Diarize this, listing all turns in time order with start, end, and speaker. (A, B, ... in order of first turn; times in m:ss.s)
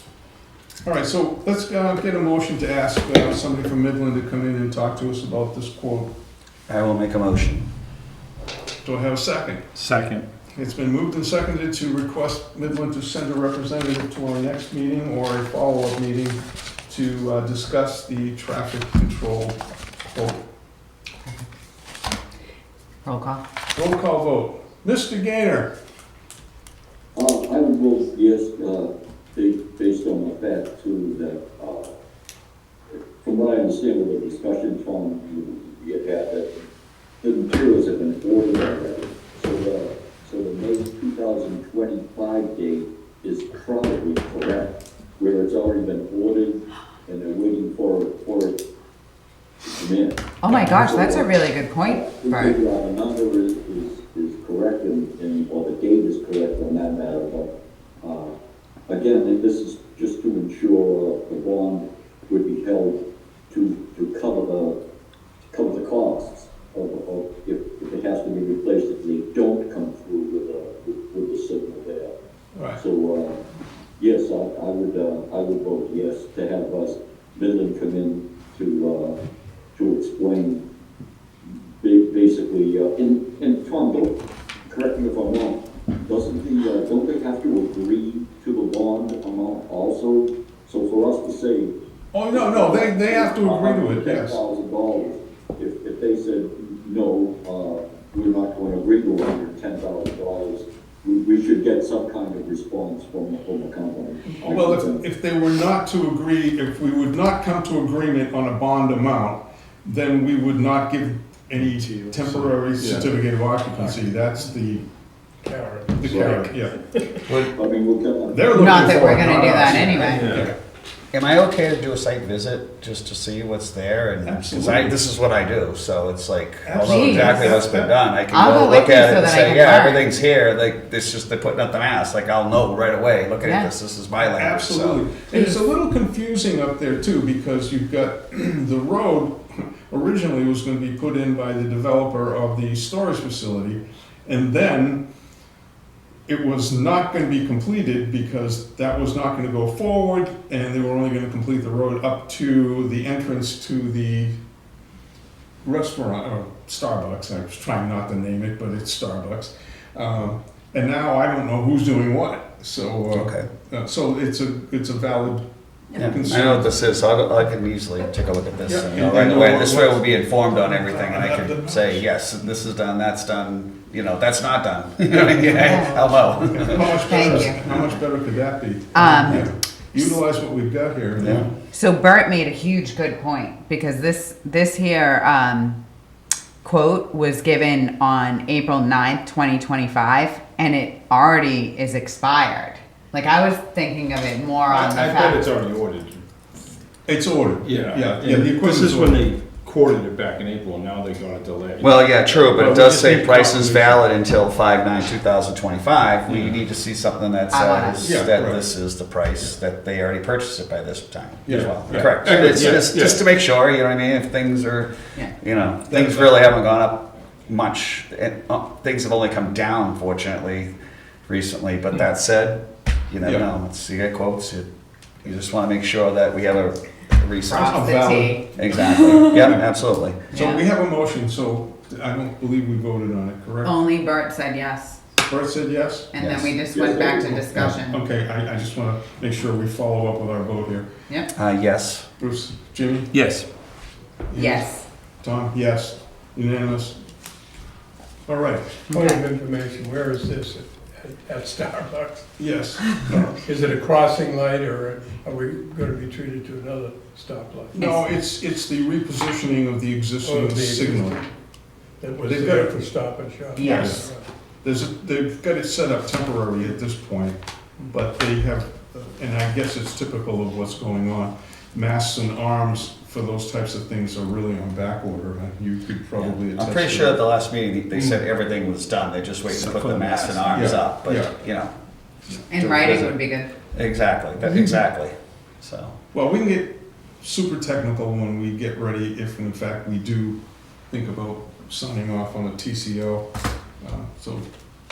0:00.8-0:06.1 A
0:06.7-0:07.7 B
0:08.8-0:09.7 A
0:09.8-0:10.2 C
0:10.5-0:20.4 A
0:23.0-0:23.4 D
0:23.7-0:25.7 A
0:27.1-0:31.9 E
0:33.2-0:36.6 E
0:37.2-0:48.6 E
0:49.6-0:51.3 E
0:50.4-0:52.5 D
0:51.8-0:57.5 E
0:58.0-0:58.3 E
0:58.9-1:03.0 E
1:03.5-1:04.8 E
1:05.5-1:12.1 E
1:12.7-1:13.4 E
1:14.0-1:19.2 E
1:19.7-1:20.6 E
1:21.5-1:24.1 E
1:24.6-1:31.7 E
1:32.1-1:34.4 A
1:32.3-1:45.0 E
1:44.3-1:54.8 A
1:51.6-1:53.2 C
1:55.4-1:57.2 F
1:56.0-1:56.8 A
1:56.0-1:56.3 E
1:57.3-1:57.5 B
1:57.5-1:59.1 E
1:58.3-2:00.4 A
1:58.5-2:00.3 D
1:59.6-2:00.5 C
1:59.8-2:00.5 B
2:01.1-2:15.1 B
2:04.2-2:05.1 A
2:06.6-2:08.0 A
2:06.8-2:07.5 D
2:08.3-2:10.1 D
2:13.4-2:13.7 D
2:14.2-2:25.0 A
2:26.3-2:34.4 A
2:35.6-2:46.9 A
2:43.1-2:43.5 B
2:45.9-2:57.8 B
2:48.6-2:52.1 A
2:55.1-3:01.5 A
2:55.6-2:55.9 D
2:56.9-2:57.6 D
2:58.9-3:00.1 D
3:01.2-3:01.5 B
3:01.7-3:05.8 D
3:06.6-3:15.4 D
3:14.7-3:16.2 C
3:17.1-3:19.2 A
3:17.6-3:24.1 C
3:21.8-3:40.7 B
3:26.2-3:26.6 C
3:27.5-3:28.0 D
3:28.0-3:28.3 C
3:28.1-3:28.6 A
3:31.5-3:32.6 A
3:31.5-3:33.2 C
3:35.9-3:36.3 A
3:41.3-3:44.7 B
3:43.2-3:43.5 A
3:45.2-3:47.9 B
3:47.4-3:49.2 D
3:47.6-3:49.6 A
3:48.5-3:50.3 B
3:50.3-3:50.6 D
3:50.3-3:53.7 A
3:53.6-3:55.0 D
3:55.3-3:56.1 A
3:56.1-3:58.0 D
3:56.2-3:56.5 B
3:56.7-3:57.4 E
3:57.2-4:00.9 A
4:01.3-4:02.1 B
4:02.2-4:03.1 A
4:03.1-4:03.5 C
4:04.3-4:04.7 A
4:04.3-4:04.8 D
4:05.2-4:07.0 A
4:08.3-4:08.9 A
4:08.9-4:12.2 F
4:08.9-4:09.2 D
4:12.4-4:13.4 A
4:13.0-4:17.8 F
4:17.7-4:21.2 A
4:17.8-4:18.0 D
4:20.2-4:21.3 F
4:22.0-4:24.3 F
4:22.2-4:22.8 A
4:23.6-4:24.1 D
4:23.6-4:24.0 A
4:24.6-4:27.4 A
4:27.9-4:37.3 A
4:36.2-4:41.7 B
4:39.5-4:40.9 C
4:40.5-4:41.3 A
4:42.5-4:43.5 D
4:42.5-4:43.2 B
4:43.7-4:45.9 B
4:46.1-4:50.4 A
4:50.9-4:53.3 A
4:53.8-4:54.5 A